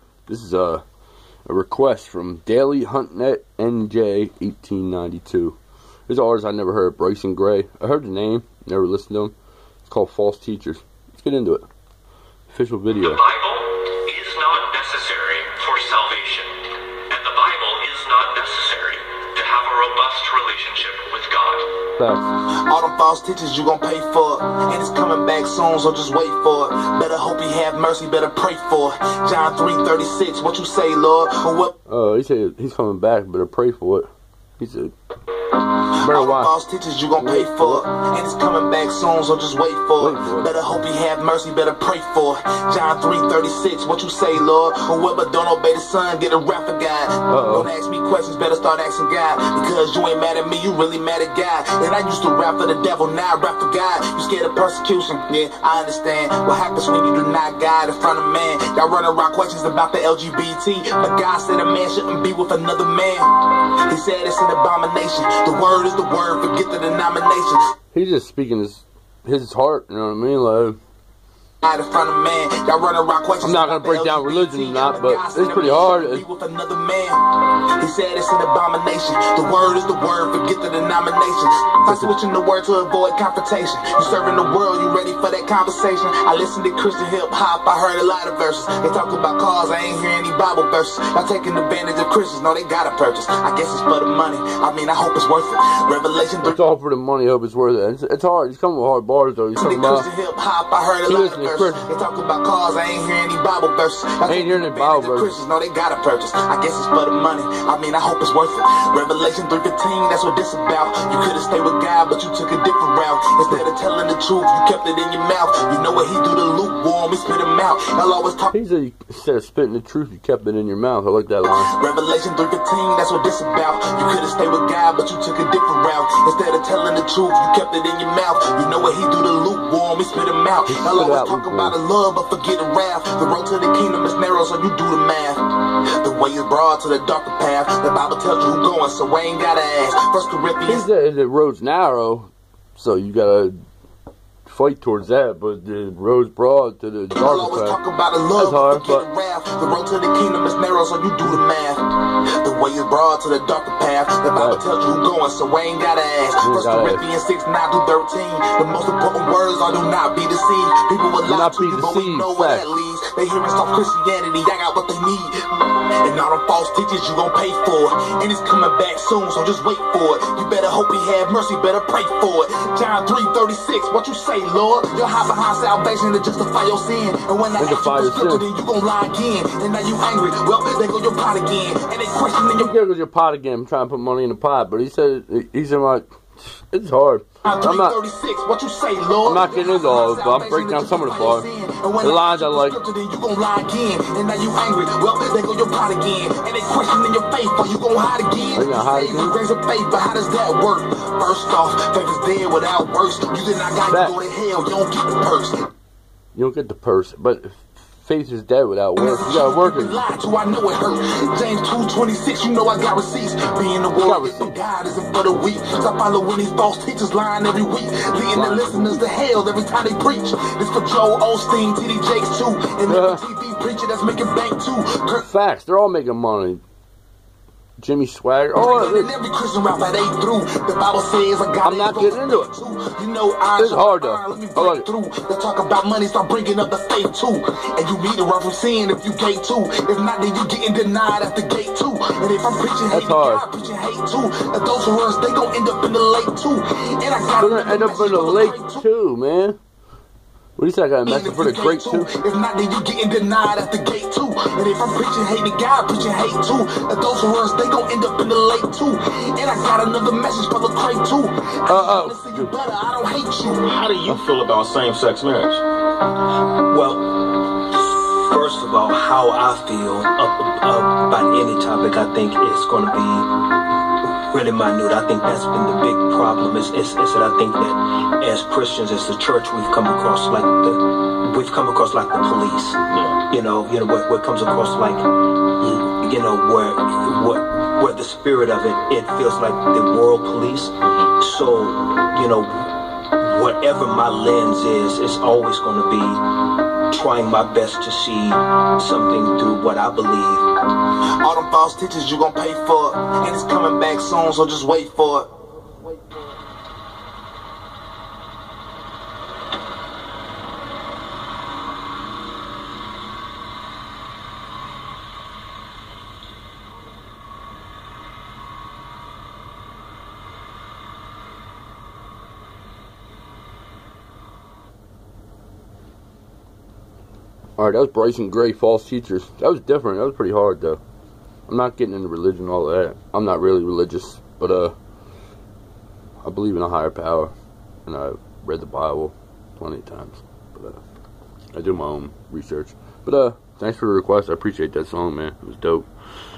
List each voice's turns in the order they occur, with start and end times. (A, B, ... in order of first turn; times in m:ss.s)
0:00.3-0:00.8 A
0:01.4-0:05.6 A
0:06.1-0:09.3 A
0:09.9-0:11.7 A
0:12.5-0:13.2 A
0:13.0-0:16.6 B
0:17.1-0:21.7 B
0:22.0-0:22.3 A
0:22.6-0:31.7 C
0:31.9-0:34.9 A
0:36.0-1:07.6 C
0:36.0-0:36.5 A
0:37.2-0:37.8 A
0:40.0-0:40.5 A
0:47.3-0:47.7 A
1:07.9-1:10.8 A
1:11.6-1:17.2 C
1:13.4-1:16.2 A
1:17.8-1:36.6 C
1:21.8-1:22.1 A
1:36.4-1:40.1 A
1:39.6-1:58.5 C
1:41.1-1:41.8 A
1:44.3-1:45.4 A
1:58.5-2:01.7 A
2:01.4-2:15.4 C
2:10.7-2:11.8 A
2:16.0-2:20.8 C
2:20.6-2:23.6 A
2:24.4-2:27.8 A
2:27.1-2:31.8 C
2:28.4-2:29.0 A
2:32.4-3:02.7 C
2:34.4-2:34.6 A
2:36.4-2:37.0 A
2:41.3-2:42.7 A
2:57.6-2:58.4 A
3:02.5-3:07.9 A
3:07.4-3:25.6 C
3:09.2-3:11.4 A
3:12.0-3:12.8 A
3:18.6-3:19.4 A
3:23.9-3:24.2 A
3:26.3-3:30.0 A
3:29.0-3:45.3 C
3:34.0-3:34.5 A
3:38.3-3:39.1 A
3:42.9-3:43.2 A
3:45.2-3:46.6 A
3:47.8-3:49.1 A
3:48.6-4:08.8 C
3:51.6-3:52.5 A
3:53.6-3:54.8 A
4:02.9-4:03.4 A
4:07.4-4:09.6 A
4:10.6-4:12.1 A
4:11.0-4:23.7 C
4:21.7-4:22.5 A
4:23.7-4:25.6 D
4:26.7-5:00.5 E
5:01.2-5:05.3 C
5:27.6-5:30.8 A
5:31.5-5:34.7 A
5:36.2-5:37.3 A
5:37.8-5:40.8 A
5:41.5-5:45.9 A